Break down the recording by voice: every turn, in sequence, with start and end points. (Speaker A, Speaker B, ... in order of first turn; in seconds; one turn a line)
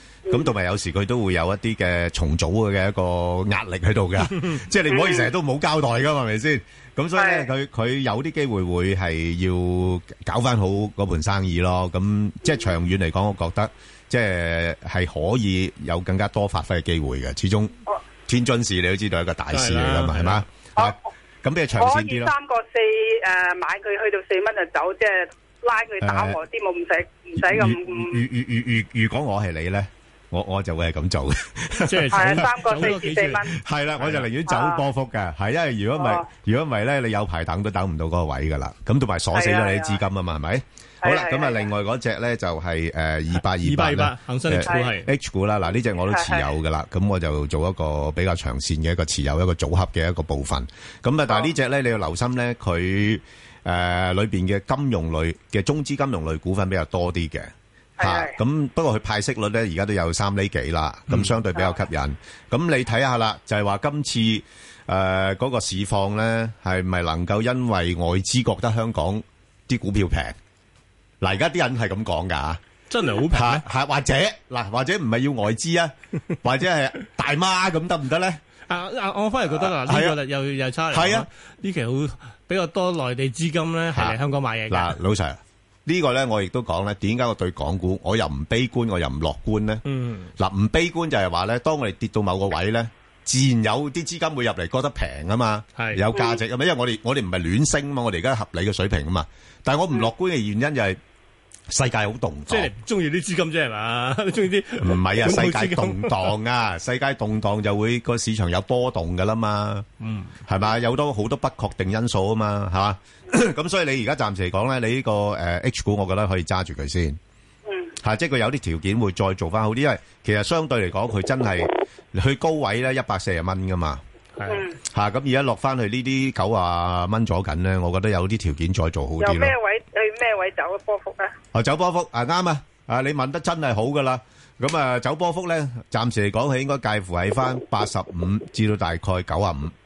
Speaker A: 0.3-17.7
Speaker B: 4.9-5.3
Speaker B: 7.2-7.5
Speaker A: 18.3-22.3
Speaker C: 19.5-20.4
Speaker B: 21.8-28.1
Speaker A: 26.0-26.4
Speaker A: 27.4-32.4
Speaker C: 31.8-33.4
Speaker B: 32.1-33.5
Speaker A: 33.5-70.3
Speaker C: 34.0-34.3
Speaker B: 34.5-34.8
Speaker B: 36.0-36.2
Speaker B: 39.3-40.0
Speaker B: 41.0-41.7
Speaker C: 43.5-45.1
Speaker B: 46.1-46.4
Speaker B: 58.0-58.3
Speaker C: 61.1-61.3
Speaker A: 71.2-72.6
Speaker C: 72.9-73.6
Speaker A: 73.3-78.4
Speaker C: 78.7-85.0
Speaker A: 79.5-80.2
Speaker A: 80.9-81.2
Speaker A: 84.7-89.8
Speaker C: 89.8-90.3
Speaker A: 90.4-101.0
Speaker C: 95.8-96.0
Speaker B: 96.1-96.4
Speaker A: 101.7-102.7
Speaker C: 102.5-106.3
Speaker A: 104.8-109.8
Speaker C: 110.0-110.3
Speaker A: 110.5-117.2
Speaker A: 118.0-124.0
Speaker C: 124.4-124.7
Speaker A: 124.9-129.5
Speaker B: 129.2-131.3
Speaker A: 131.5-139.7